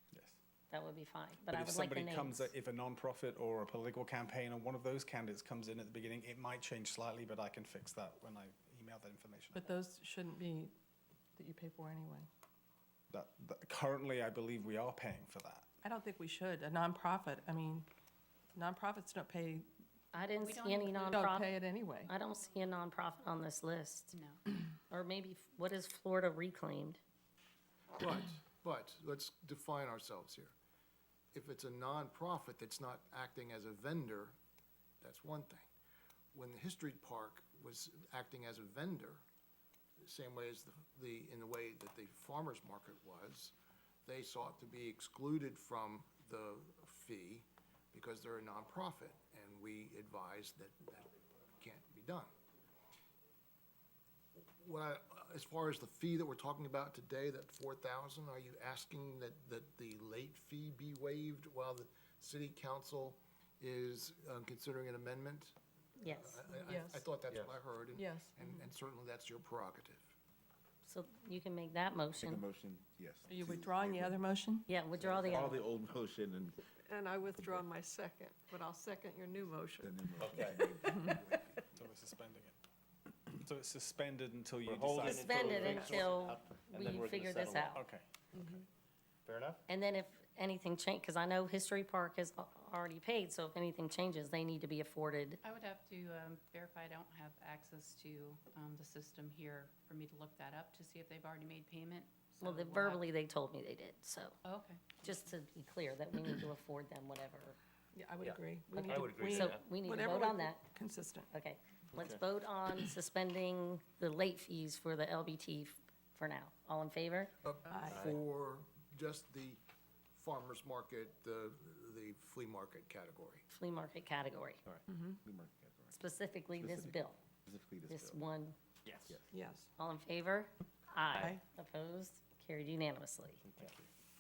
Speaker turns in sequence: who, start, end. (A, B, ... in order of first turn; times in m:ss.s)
0:00.1-0:00.4 A
0:00.7-0:02.5 B
0:01.5-0:09.8 A
0:09.6-0:10.7 C
0:11.4-0:12.3 C
0:13.1-0:15.7 A
0:15.8-0:17.9 C
0:18.5-0:19.7 C
0:20.1-0:21.5 B
0:20.4-0:21.2 D
0:21.1-0:22.1 C
0:22.1-0:24.1 B
0:24.1-0:24.4 D
0:24.9-0:27.0 B
0:28.0-0:30.6 E
0:31.3-0:34.4 E
0:35.0-0:35.7 E
0:36.3-0:39.2 E
0:40.0-0:43.5 E
0:44.1-0:52.3 E
0:54.6-1:05.6 E
1:06.0-1:06.4 B
1:06.1-1:10.1 E
1:06.7-1:07.1 C
1:07.9-1:08.4 C
1:10.8-1:12.4 B
1:12.2-1:14.3 F
1:13.3-1:14.7 C
1:14.7-1:15.6 B
1:15.0-1:16.6 F
1:16.9-1:19.9 G
1:19.8-1:21.4 F
1:20.2-1:21.1 H
1:21.7-1:22.6 A
1:23.3-1:26.0 A
1:24.6-1:27.8 H
1:25.1-1:27.8 B
1:27.7-1:28.6 A
1:29.3-1:29.6 H
1:29.7-1:35.4 B
1:35.4-1:43.1 D
1:42.4-1:44.4 B
1:44.4-1:44.9 D
1:45.0-1:47.6 B
1:47.9-1:51.3 C
1:48.2-1:49.7 H
1:48.8-1:50.6 B
1:51.3-1:57.3 B
1:52.0-1:52.2 H
1:57.4-1:59.6 E
1:57.7-1:58.2 C
2:00.1-2:03.4 E
2:03.5-2:04.6 B
2:04.9-2:05.2 C
2:05.2-2:05.9 F
2:05.9-2:07.2 B
2:06.6-2:08.2 F
2:07.9-2:08.6 B
2:08.9-2:09.2 H
2:09.3-2:09.7 C
2:09.8-2:13.4 B
2:13.4-2:13.7 H